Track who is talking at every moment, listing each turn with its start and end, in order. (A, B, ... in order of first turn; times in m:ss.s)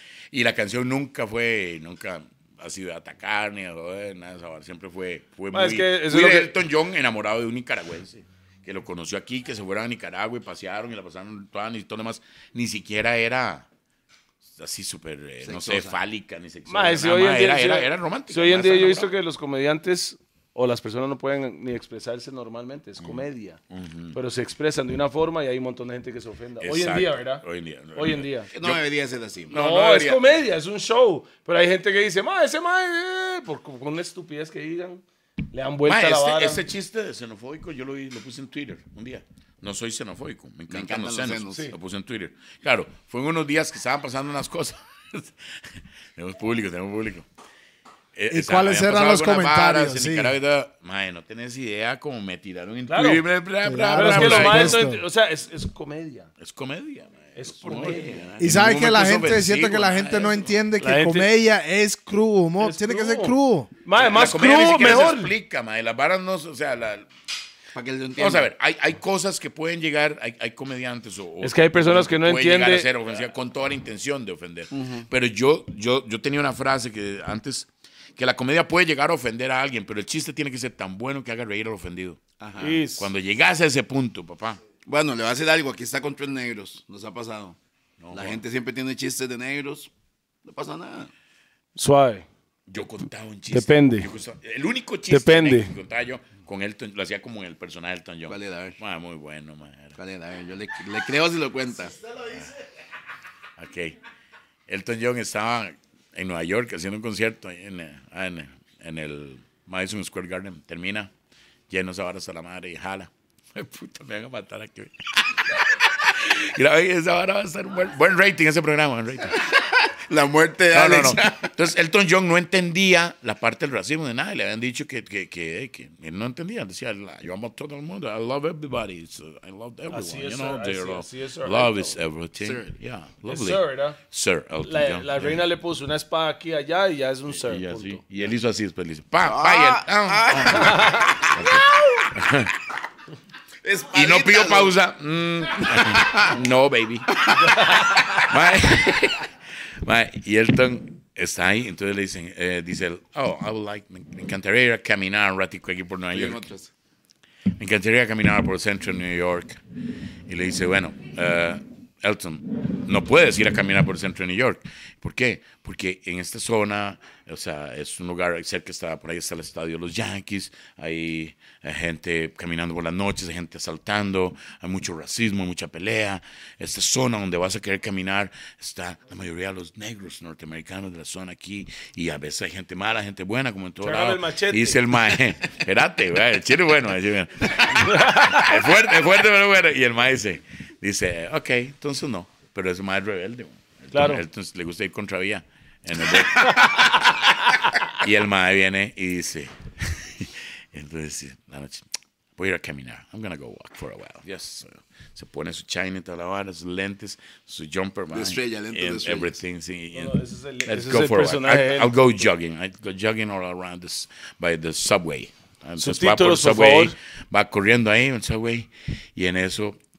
0:00.3-0:13.7 A
0:05.5-0:06.5 B
0:14.6-0:19.1 A
0:15.4-0:16.0 C
0:16.7-0:23.6 B
0:23.0-0:24.2 A
0:24.1-0:27.4 B
0:26.6-0:28.8 A
0:27.9-0:28.5 B
0:28.5-0:29.6 C
0:29.5-0:30.4 A
0:29.5-0:36.6 B
0:35.8-0:45.6 A
0:40.7-0:41.7 C
0:46.2-0:47.2 A
0:48.2-0:54.8 A
0:48.3-0:50.4 D
0:52.9-0:53.2 B
0:53.6-0:55.0 D
0:53.9-0:56.3 B
0:56.4-1:00.6 A
0:57.4-0:58.2 B
0:57.7-0:58.3 C
0:58.4-1:03.7 D
1:00.8-1:01.3 B
1:02.6-1:05.3 B
1:04.0-1:07.1 A
1:07.7-1:08.5 C
1:08.2-1:24.6 A
1:11.4-1:12.9 B
1:14.7-1:15.1 C
1:22.4-1:22.8 C
1:22.6-1:23.1 B
1:24.8-1:27.6 C
1:28.0-1:28.4 A
1:28.1-1:29.9 C
1:30.4-1:31.1 C
1:31.8-1:32.2 B
1:32.7-1:40.0 A
1:33.5-1:34.1 B
1:35.1-1:35.7 B
1:38.3-1:38.8 C
1:40.0-1:42.0 C
1:42.2-1:42.5 A
1:43.6-1:44.0 A
1:44.7-1:51.1 A
1:51.7-1:59.5 A
1:59.4-2:01.5 C
2:00.7-2:15.4 A
2:09.9-2:12.0 B
2:12.4-2:12.7 C
2:13.2-2:14.0 B
2:14.6-2:18.0 B
2:17.3-2:22.6 A
2:19.2-2:22.1 C
2:20.5-2:21.2 B
2:23.6-2:24.8 C
2:23.9-2:27.2 A
2:25.5-2:26.3 C
2:27.4-2:28.2 B
2:28.2-2:29.3 A
2:29.8-2:36.4 A
2:36.1-2:36.7 C
2:37.6-2:39.6 A
2:40.3-3:17.3 A
3:03.8-3:05.2 B
3:07.6-3:08.6 B
3:13.9-3:14.2 B
3:16.4-3:17.8 B
3:17.9-3:39.8 A
3:28.1-3:29.4 C
3:29.9-3:31.9 B
3:35.8-3:36.9 B